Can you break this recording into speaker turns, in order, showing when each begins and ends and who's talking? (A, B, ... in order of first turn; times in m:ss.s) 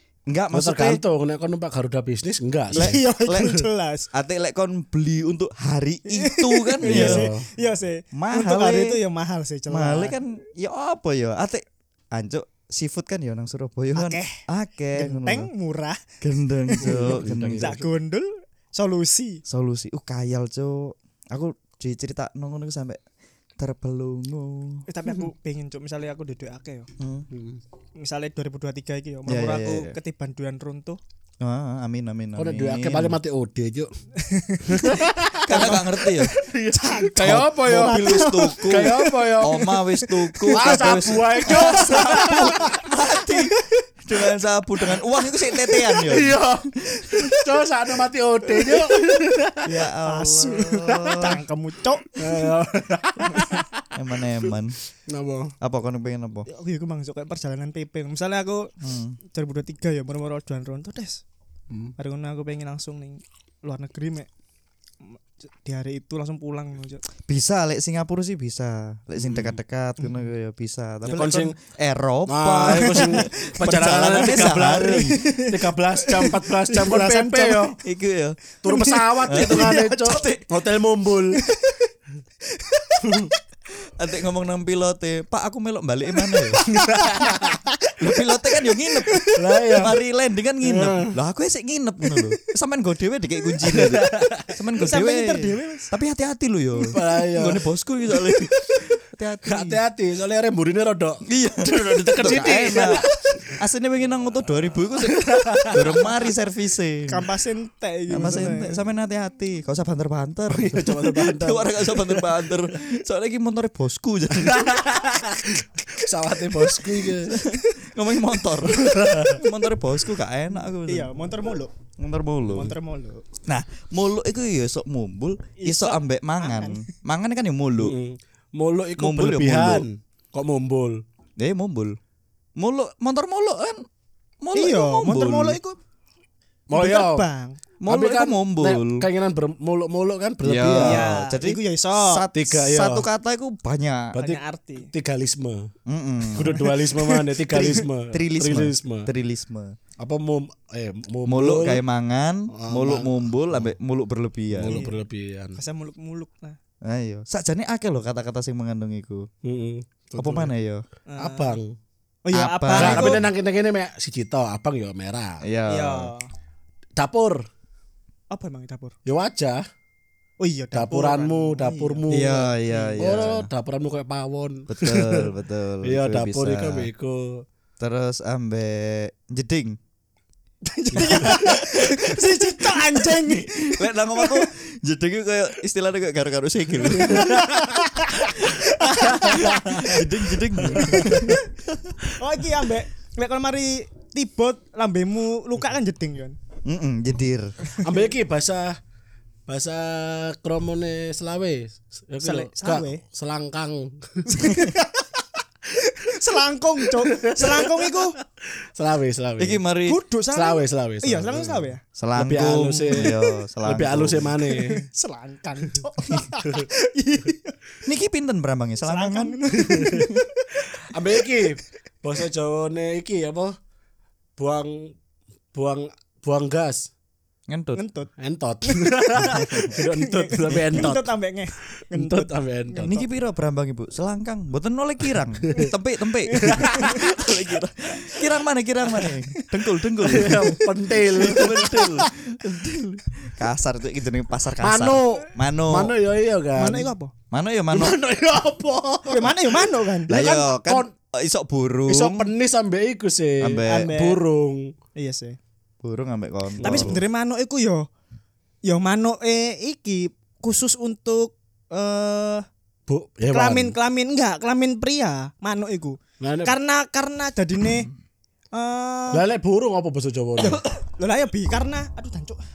0:00.3-0:01.0 A
0:00.5-0:03.6 B
0:02.7-0:03.6 A
0:02.7-0:04.1 C
0:04.1-0:07.2 A
0:06.1-0:10.2 C
0:06.8-0:07.4 B
0:08.1-0:09.0 A
0:09.7-0:15.5 A
0:14.0-0:14.4 C
0:14.9-0:16.1 C
0:16.2-0:17.8 A
0:16.7-0:19.4 C
0:16.8-0:17.8 B
0:19.5-0:23.0 A
0:23.6-0:24.8 A
0:24.9-0:26.9 C
0:27.0-0:27.3 A
0:27.3-0:27.6 B
0:28.0-0:31.0 C
0:29.3-0:30.0 A
0:31.4-0:33.2 A
0:32.4-0:33.9 B
0:34.2-0:35.8 C
0:34.7-0:39.7 B
0:35.4-0:36.4 A
0:36.7-0:37.2 C
0:37.2-0:43.5 A
0:37.7-0:40.8 C
0:40.5-0:42.7 B
0:41.4-0:43.8 C
0:44.0-0:46.4 A
0:44.9-0:45.8 C
0:46.1-0:49.6 B
0:46.9-0:47.4 A
0:48.5-0:52.5 C
0:49.7-0:51.4 A
0:52.2-0:53.9 B
0:53.3-0:53.6 C
0:54.0-0:54.8 A
0:55.1-0:55.5 B
0:55.6-0:56.5 A
0:56.5-0:58.7 C
0:58.8-0:59.2 A
0:59.2-1:01.2 C
1:02.0-1:04.3 C
1:05.0-1:07.0 C
1:07.2-1:15.2 A
1:09.3-1:09.6 B
1:11.1-1:11.6 B
1:12.3-1:17.8 B
1:12.9-1:17.7 C
1:17.8-1:18.4 A
1:18.6-1:21.4 B
1:18.7-1:20.2 C
1:19.3-1:20.4 A
1:21.4-1:21.9 C
1:22.5-1:23.4 C
1:23.1-1:23.3 B
1:24.0-1:26.7 A
1:26.3-1:28.2 C
1:26.9-1:27.6 B
1:28.0-1:29.2 A
1:29.0-1:29.6 C
1:29.4-1:30.0 B
1:29.8-1:39.8 A
1:30.6-1:31.2 B
1:33.6-1:34.5 B
1:34.8-1:35.9 C
1:36.8-1:37.7 B
1:38.3-1:38.8 B
1:39.4-1:43.5 B
1:41.3-1:47.3 A
1:45.0-1:46.0 B
1:47.1-1:48.8 C
1:48.1-1:55.1 A
1:50.5-1:52.3 B
1:54.4-1:57.4 B
1:57.3-2:01.1 A
1:57.5-1:57.8 C
1:58.6-1:59.4 B
2:00.8-2:01.7 C
2:02.0-2:02.7 A
2:02.5-2:03.2 C
2:03.5-2:08.0 A
2:05.6-2:06.9 C
2:07.8-2:11.0 B
2:09.0-2:09.9 A
2:11.4-2:12.0 A
2:12.6-2:13.8 A
2:14.4-2:15.6 A
2:14.5-2:15.8 C
2:16.7-2:17.2 B
2:16.7-2:17.6 C
2:17.8-2:19.0 A
2:17.9-2:21.1 B
2:20.4-2:24.2 A
2:20.8-2:22.2 C
2:22.3-2:23.1 B
2:24.1-2:25.7 B
2:24.2-2:24.9 C
2:25.9-2:26.7 A
2:26.4-2:29.1 B
2:26.7-2:27.2 C
2:27.5-2:29.7 A
2:30.0-2:31.8 B
2:31.2-2:34.8 A
2:32.5-2:33.7 B
2:34.6-2:35.6 B
2:34.7-2:35.0 C
2:35.6-2:36.6 C
2:36.8-2:39.2 A
2:39.4-2:40.5 B
2:40.2-2:40.8 A
2:41.1-2:41.6 C
2:41.2-2:41.8 B
2:42.3-2:43.3 C
2:42.3-2:43.2 A
2:42.8-2:45.4 B
2:45.4-2:46.1 A
2:45.7-2:46.2 C
2:47.0-2:47.4 B
2:48.3-2:49.0 C
2:49.1-2:49.6 B
2:50.4-2:53.0 C
2:50.7-2:52.4 B
2:52.1-2:53.5 A
2:53.0-2:55.3 B
2:54.7-2:56.9 A
2:55.8-2:57.4 B
2:57.8-2:59.8 A
3:00.7-3:04.5 C
3:01.0-3:01.2 B
3:01.0-3:07.6 A
3:06.9-3:10.1 C
3:07.0-3:07.6 B
3:08.2-3:08.7 A
3:09.1-3:10.0 B
3:09.3-3:12.0 A
3:10.6-3:11.5 C
3:10.6-3:11.2 B
3:12.2-3:16.4 C
3:16.7-3:17.6 A
3:17.8-3:18.8 B
3:19.5-3:24.3 B
3:22.2-3:23.0 C
3:24.3-3:25.2 C
3:25.8-3:28.2 C
3:26.9-3:29.6 B
3:29.4-3:30.0 A
3:29.9-3:31.8 C
3:30.3-3:34.8 B
3:32.0-3:34.3 A
3:34.5-3:37.6 C
3:37.9-3:40.2 A
3:38.9-3:40.6 C
3:39.7-3:40.0 B
3:40.9-3:43.5 B
3:44.4-3:44.9 B
3:45.5-3:46.9 B
3:47.5-3:47.8 A
3:47.8-3:48.1 C
3:48.2-3:51.1 B
3:48.6-3:53.0 C
3:51.8-3:53.0 B
3:52.8-4:00.6 A
3:56.3-3:57.3 C
3:56.5-3:57.1 B
3:58.9-3:59.5 C
4:00.1-4:01.9 B
4:00.3-4:00.6 C
4:01.2-4:05.9 A
4:01.3-4:01.8 C
4:04.6-4:06.9 B
4:06.6-4:07.1 C
4:07.3-4:08.0 A
4:07.7-4:10.9 B
4:09.1-4:10.4 C
4:10.1-4:12.3 A
4:11.9-4:14.7 B
4:13.4-4:13.9 A
4:13.6-4:14.2 C
4:15.0-4:15.4 C
4:15.8-4:17.0 A
4:16.6-4:17.0 B
4:16.6-4:17.9 C
4:18.7-4:22.4 C
4:22.9-4:23.8 B
4:23.3-4:27.9 C
4:26.2-4:26.5 B
4:28.5-4:29.2 C
4:29.1-4:30.6 B
4:30.4-4:32.4 C